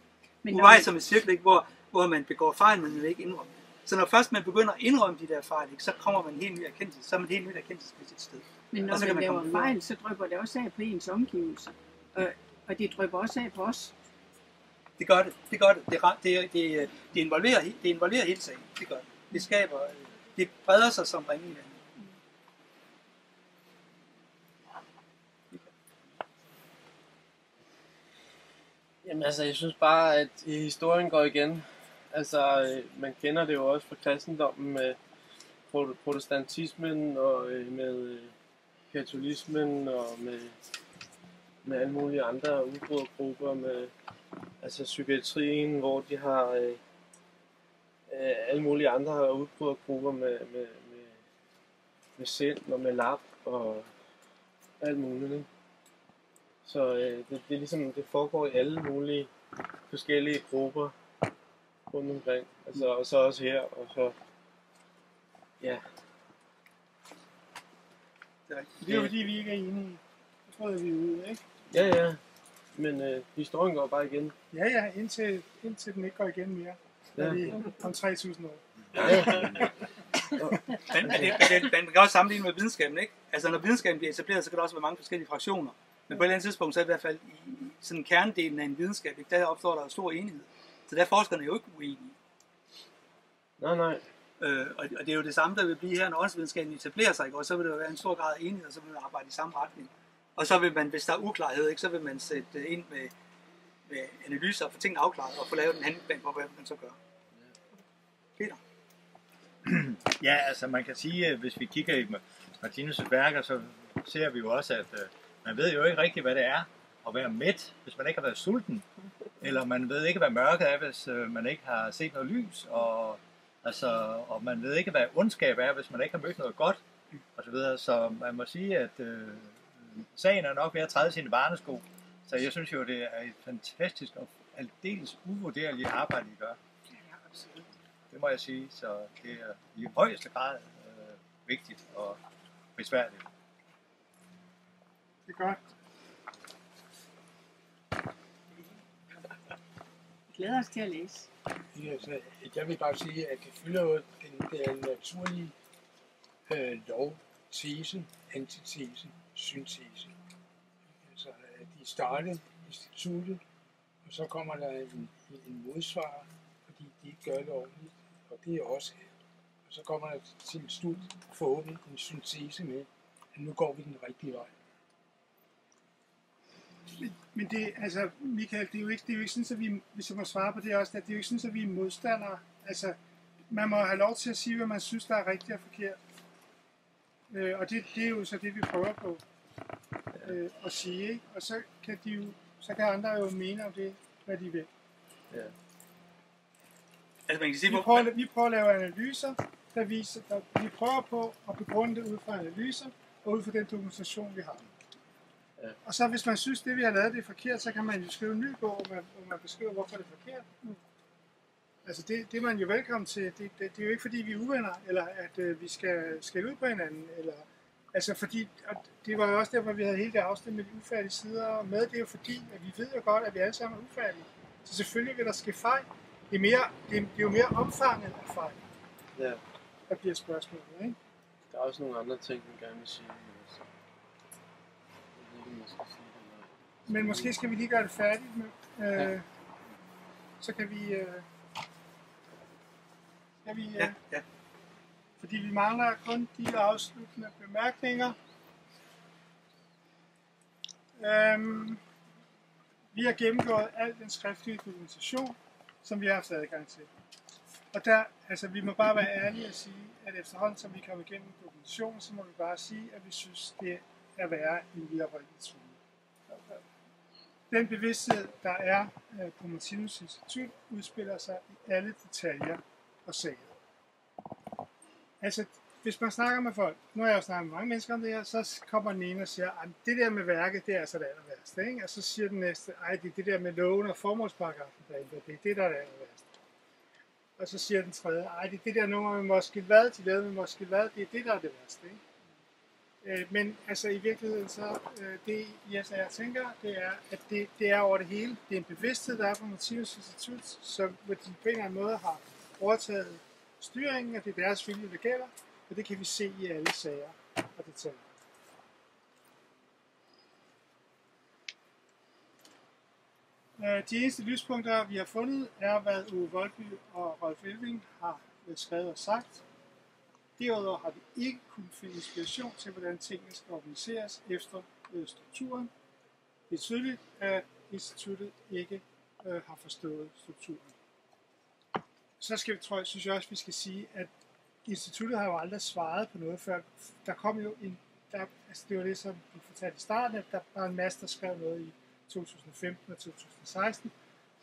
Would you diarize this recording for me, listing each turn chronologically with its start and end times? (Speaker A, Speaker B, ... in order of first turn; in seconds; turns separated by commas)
Speaker A: 0.4-0.9, Speaker B: 0.5-9.8, Speaker A: 8.7-13.9, Speaker B: 15.0-21.9, Speaker C: 29.0-35.0, Speaker C: 35.7-38.3, Speaker C: 38.9-40.5, Speaker C: 41.6-43.9, Speaker C: 44.6-46.8, Speaker C: 48.1-51.2, Speaker C: 52.2-53.9, Speaker C: 54.8-55.5, Speaker C: 56.6-59.3, Speaker C: 59.9-60.9, Speaker C: 61.9-64.1, Speaker B: 68.5-69.1, Speaker D: 68.8-71.4, Speaker C: 71.7-72.2, Speaker C: 72.8-74.3, Speaker D: 74.5-79.7, Speaker C: 77.2-77.4, Speaker C: 79.0-79.6, Speaker C: 80.4-81.4, Speaker B: 80.8-92.1, Speaker C: 93.6-94.0, Speaker B: 94.4-103.1, Speaker B: 103.9-107.0, Speaker E: 109.6-118.8, Speaker E: 119.4-126.8, Speaker E: 127.3-136.6, Speaker D: 137.1-137.7, Speaker E: 138.1-142.2, Speaker E: 142.8-143.2, Speaker D: 145.3-145.6, Speaker A: 150.3-151.3, Speaker F: 151.7-155.5, Speaker F: 156.5-160.1, Speaker F: 161.1-163.4, Speaker F: 164.1-169.1, Speaker F: 169.7-174.5, Speaker D: 176.9-183.0, Speaker D: 183.5-186.0, Speaker D: 187.3-189.2, Speaker D: 190.2-194.7, Speaker B: 197.3-198.1, Speaker D: 197.7-204.7, Speaker D: 205.8-210.8, Speaker D: 211.8-228.6, Speaker C: 229.2-229.4, Speaker D: 229.9-231.0, Speaker C: 231.5-233.7, Speaker C: 235.2-237.3, Speaker D: 236.9-239.2, Speaker D: 240.4-241.2, Speaker D: 243.4-243.9, Speaker B: 243.8-244.2, Speaker D: 245.2-248.2, Speaker D: 251.0-251.8, Speaker D: 252.9-256.9, Speaker D: 257.7-266.6, Speaker D: 267.5-273.5, Speaker D: 275.2-286.3, Speaker D: 287.4-292.0, Speaker D: 293.0-308.1, Speaker D: 313.6-319.4, Speaker D: 320.4-325.7, Speaker D: 326.5-330.7, Speaker D: 332.2-334.1, Speaker D: 334.6-343.9